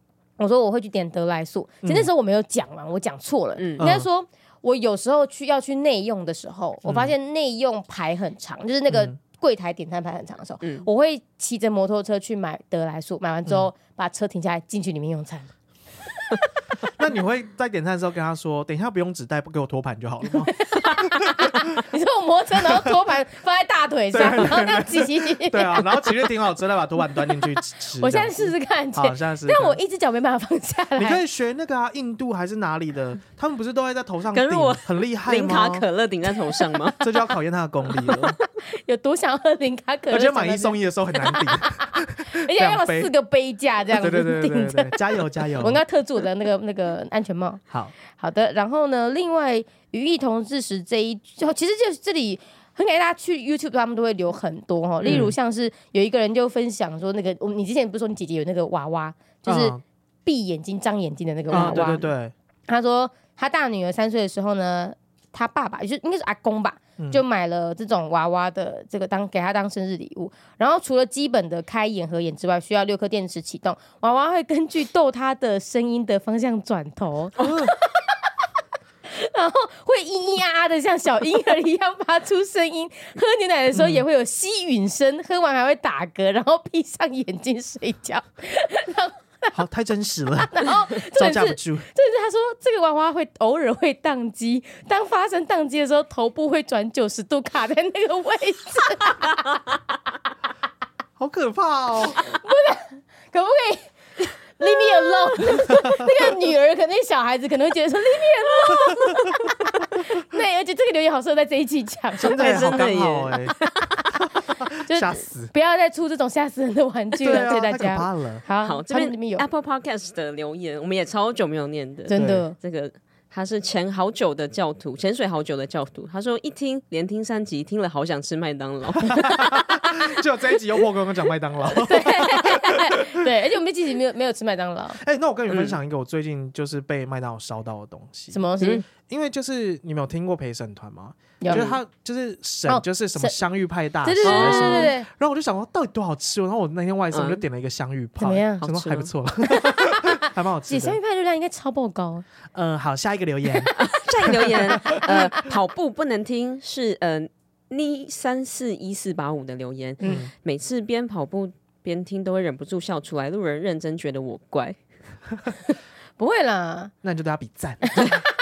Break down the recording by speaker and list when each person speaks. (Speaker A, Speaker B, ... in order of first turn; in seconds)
Speaker A: 0.4-15.5, 20.9-26.2, 28.0-31.2, 38.7-62.0, 62.7-77.9, 79.0-89.5, 90.5-99.6, 102.2-113.0, 114.9-119.5, 122.1-122.5, 131.7-135.0, 138.3-138.8, 141.4-141.7, 142.7-143.3, 144.0-145.1, 148.2-148.7, 149.4-152.2, 154.9-155.3, 166.2-166.9, 167.8-168.1
Speaker B: 1.8-2.1, 3.8-4.1, 6.8-7.1, 8.9-9.1, 16.8-21.8, 24.1-29.8, 31.0-35.9, 37.0-38.4, 40.1-43.1, 44.0-45.8, 55.0-55.3, 59.5-59.8, 61.5-62.3, 67.0-67.2, 77.4-77.7, 83.7-84.0, 89.5-91.9, 101.2-102.2, 105.7-106.1, 108.8-109.3, 112.2-113.6, 114.1-115.5, 117.2-118.4, 122.1-122.4, 129.0-133.3, 134.9-138.4, 139.0-151.0, 152.5-155.0, 160.0-160.3, 167.0-168.2
Speaker C: 3.6-3.9, 10.6-10.8, 34.3-37.2, 61.5-62.1, 112.2-114.1, 118.6-129.5, 135.5-135.8, 138.6-138.8, 141.5-141.8, 144.2-144.9, 147.1-147.4, 148.6-149.1, 153.7-164.8